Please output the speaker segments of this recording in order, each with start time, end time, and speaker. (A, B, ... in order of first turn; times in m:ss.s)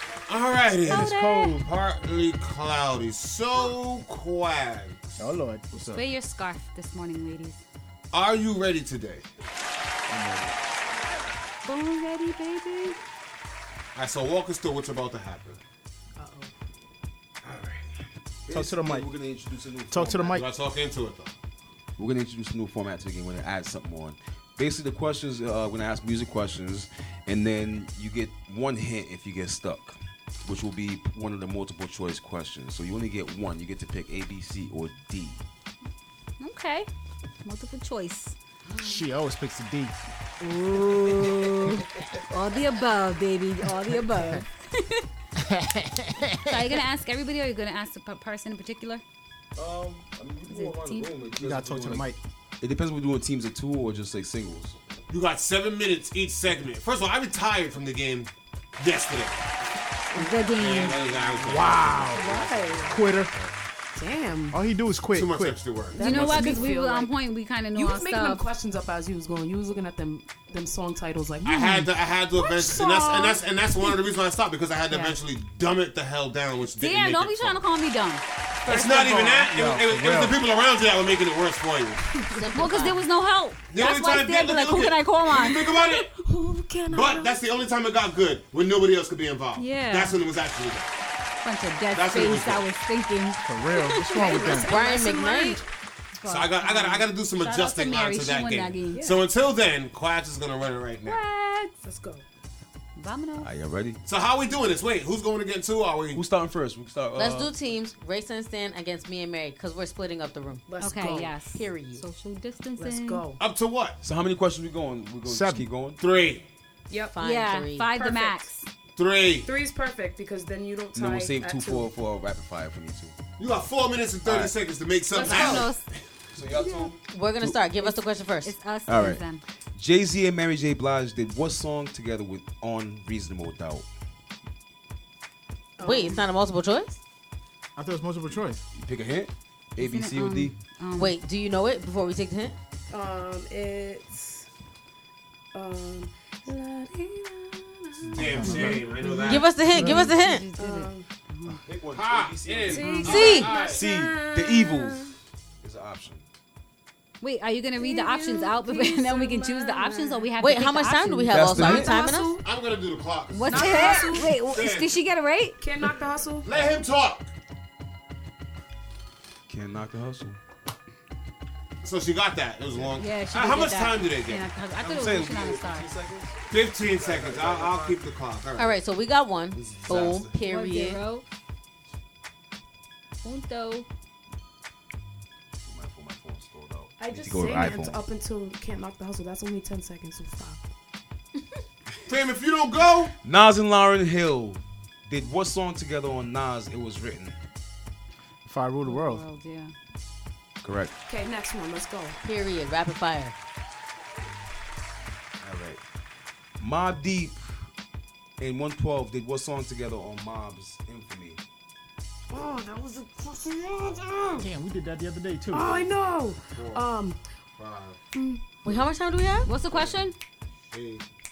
0:00.3-0:05.2 A
0:00.8-0:01.6 B
0:00.9-0:01.5 C
0:05.2-0:05.6 B
0:05.7-0:06.0 D
0:05.9-0:07.6 C
0:08.1-0:09.2 A
0:10.1-0:10.6 D
0:11.6-0:13.0 C
0:13.9-0:15.6 A
0:16.2-0:16.5 E
0:17.4-0:17.8 D
0:18.4-0:20.4 D
0:18.5-0:19.1 B
0:19.9-0:20.4 B
0:20.2-0:21.3 A
0:22.0-0:35.4 D
0:36.4-0:36.9 C
0:37.4-0:38.4 C
0:38.8-0:40.0 B
0:40.4-0:45.0 C
0:45.4-0:46.8 B
0:46.4-0:49.0 C
0:49.6-0:52.0 D
0:50.5-0:51.1 C
0:51.4-0:52.2 B
0:52.6-0:54.8 D
0:55.1-0:59.4 A
1:00.1-1:01.0 C
1:00.4-1:03.5 A
1:01.4-1:02.2 B
1:02.1-1:03.0 E
1:02.9-1:03.3 B
1:03.9-1:04.6 E
1:04.5-1:05.6 B
1:05.1-1:06.6 A
1:05.9-1:07.1 E
1:06.0-1:08.4 C
1:07.7-1:14.0 E
1:11.4-1:17.6 A
1:14.9-1:15.2 E
1:16.7-1:18.2 C
1:18.6-1:19.5 E
1:18.6-1:22.0 A
1:19.5-1:20.4 B
1:22.3-1:23.0 F
1:22.5-1:25.8 C
1:23.7-1:26.1 A
1:26.1-1:27.4 E
1:26.9-1:30.9 A
1:29.6-1:30.2 C
1:31.4-1:34.4 C
1:31.9-1:32.7 A
1:33.4-1:34.8 B
1:34.1-1:35.7 E
1:34.4-1:35.6 F
1:36.2-1:39.1 C
1:36.2-1:41.2 A
1:38.9-1:39.2 E
1:41.0-1:41.7 C
1:41.8-1:42.2 E
1:43.0-1:43.5 C
1:43.4-1:44.0 D
1:44.0-1:46.2 A
1:46.1-1:47.5 D
1:47.1-1:50.6 F
1:50.7-1:51.3 E
1:50.8-1:53.2 C
1:51.5-1:52.0 F
1:52.8-1:53.4 E
1:53.4-1:54.0 A
1:54.0-1:56.0 D
1:55.2-1:55.7 B
1:56.0-1:56.4 A
1:56.9-1:57.2 E
1:57.1-1:57.9 F
1:57.2-1:58.6 C
1:57.9-1:58.4 E
1:59.0-1:59.5 A
1:59.4-2:01.9 E
2:00.9-2:03.1 D
2:03.4-2:05.7 A
2:04.2-2:04.5 D
2:05.1-2:05.6 E
2:05.1-2:05.8 C
2:05.2-2:05.6 D
2:06.3-2:07.6 D
2:07.1-2:08.5 F
2:07.8-2:09.4 C
2:08.9-2:09.2 D
2:09.7-2:13.9 D
2:15.8-2:16.2 E
2:15.8-2:17.0 F
2:17.8-2:18.6 B
2:18.8-2:20.5 D
2:19.8-2:21.2 C
2:21.0-2:22.6 F
2:22.9-2:24.4 E
2:25.5-2:29.3 E
2:28.1-2:29.6 A
2:28.4-2:28.8 B
2:29.2-2:30.4 F
2:29.7-2:31.6 C
2:30.6-2:31.0 E
2:31.6-2:35.1 D
2:31.9-2:33.8 A
2:32.7-2:34.0 C
2:32.8-2:34.5 E
2:33.0-2:33.5 F
2:35.6-2:36.2 D
2:37.2-2:41.5 C
2:37.8-2:40.3 E
2:40.4-2:42.4 F
2:41.3-2:42.0 D
2:41.6-2:42.4 E
2:42.4-2:44.9 A
2:43.3-2:45.6 C
2:43.5-2:44.4 E
2:45.6-2:46.5 E
2:46.4-2:47.3 A
2:49.5-2:50.4 D
2:51.8-2:54.5 A
2:53.0-2:55.9 C
2:54.8-2:58.0 D
2:56.5-2:58.8 A
2:58.6-3:01.0 F
2:59.5-3:00.3 A
3:00.4-3:01.2 C
3:03.2-3:03.8 C
3:05.6-3:08.0 D
3:07.0-3:10.6 E
3:12.1-3:13.1 A
3:13.2-3:17.3 D
3:18.4-3:19.2 B
3:18.8-3:19.7 C
3:20.6-3:20.9 D
3:21.1-3:22.2 E
3:22.2-3:23.3 F
3:25.4-3:25.8 D
3:26.6-3:27.4 D
3:28.4-3:31.4 D
3:32.3-3:34.4 E
3:34.4-3:35.9 B
3:35.5-3:37.2 E
3:36.4-3:36.9 A
3:37.6-3:38.0 A
3:38.1-3:38.4 E
3:38.6-3:39.5 F
3:39.4-3:40.1 C
3:39.6-3:40.1 A
3:40.7-3:41.0 A